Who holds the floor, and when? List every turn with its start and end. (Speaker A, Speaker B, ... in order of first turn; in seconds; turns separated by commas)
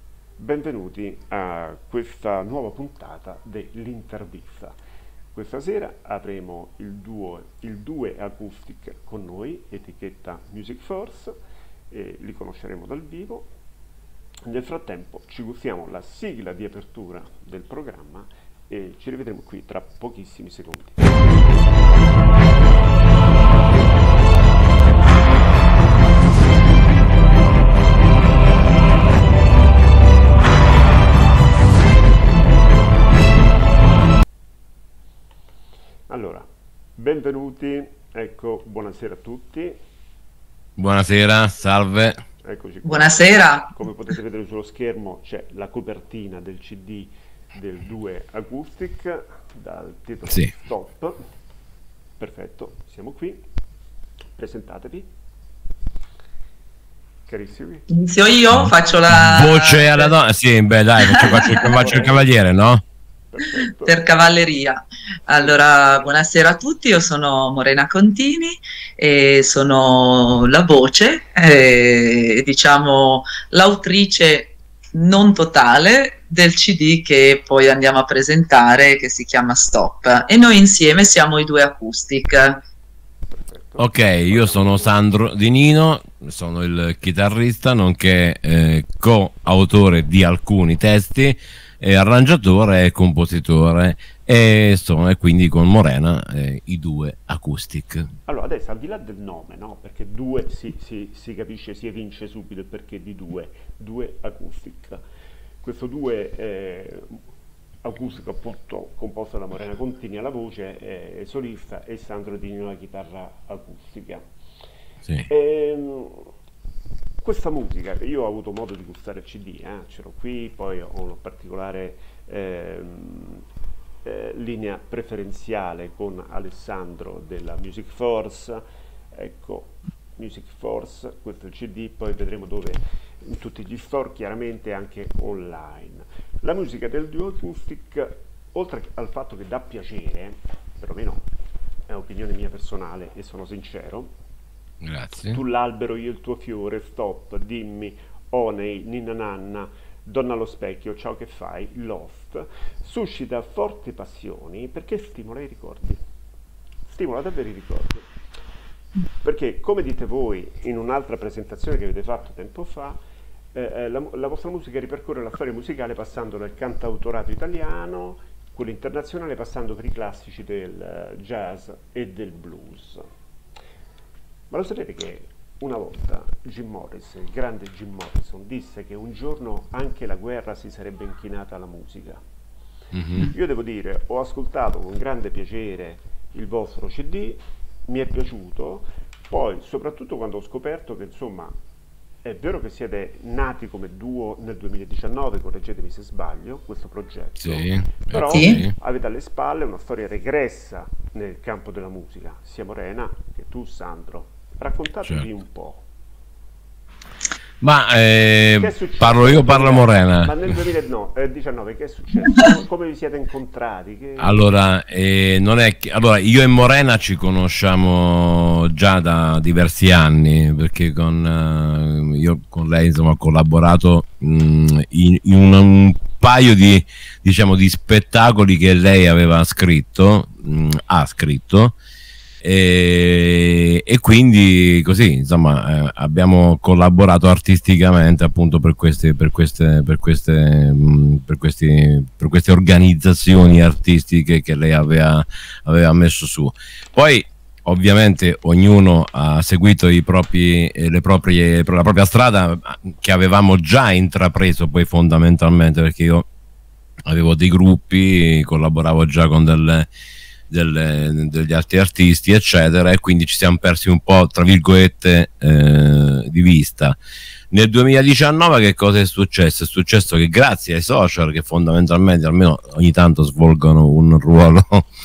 Speaker A: 0.4-4.7, Speaker A: 5.3-11.4, Speaker A: 11.9-13.5, Speaker A: 14.4-21.6, Speaker A: 36.1-39.8, Speaker B: 40.8-42.2, Speaker A: 42.4-51.2, Speaker C: 42.8-43.7, Speaker A: 52.2-53.4, Speaker A: 54.4-55.1, Speaker A: 57.3-57.9, Speaker C: 57.9-60.1, Speaker B: 58.5-62.8, Speaker C: 61.1-61.8, Speaker A: 61.5-62.3, Speaker A: 63.3-64.5, Speaker C: 63.8-82.6, Speaker A: 83.3-84.9, Speaker B: 83.8-98.1, Speaker A: 98.2-105.0, Speaker A: 105.6-107.2, Speaker A: 107.8-114.2, Speaker A: 115.3-116.3, Speaker A: 117.2-123.4, Speaker A: 124.0-141.2, Speaker A: 141.9-144.1, Speaker B: 144.8-145.4, Speaker A: 145.3-156.0, Speaker A: 156.9-158.1, Speaker A: 159.2-163.0, Speaker A: 163.5-173.1, Speaker A: 174.5-182.2, Speaker B: 182.9-183.3, Speaker A: 183.2-191.6, Speaker A: 192.2-205.9, Speaker B: 197.4-198.7, Speaker C: 198.2-198.6, Speaker B: 207.6-210.3, Speaker A: 208.6-214.4, Speaker B: 214.2-231.8, Speaker B: 232.4-256.3, Speaker B: 257.1-259.9, Speaker B: 260.5-267.0, Speaker B: 267.5-274.9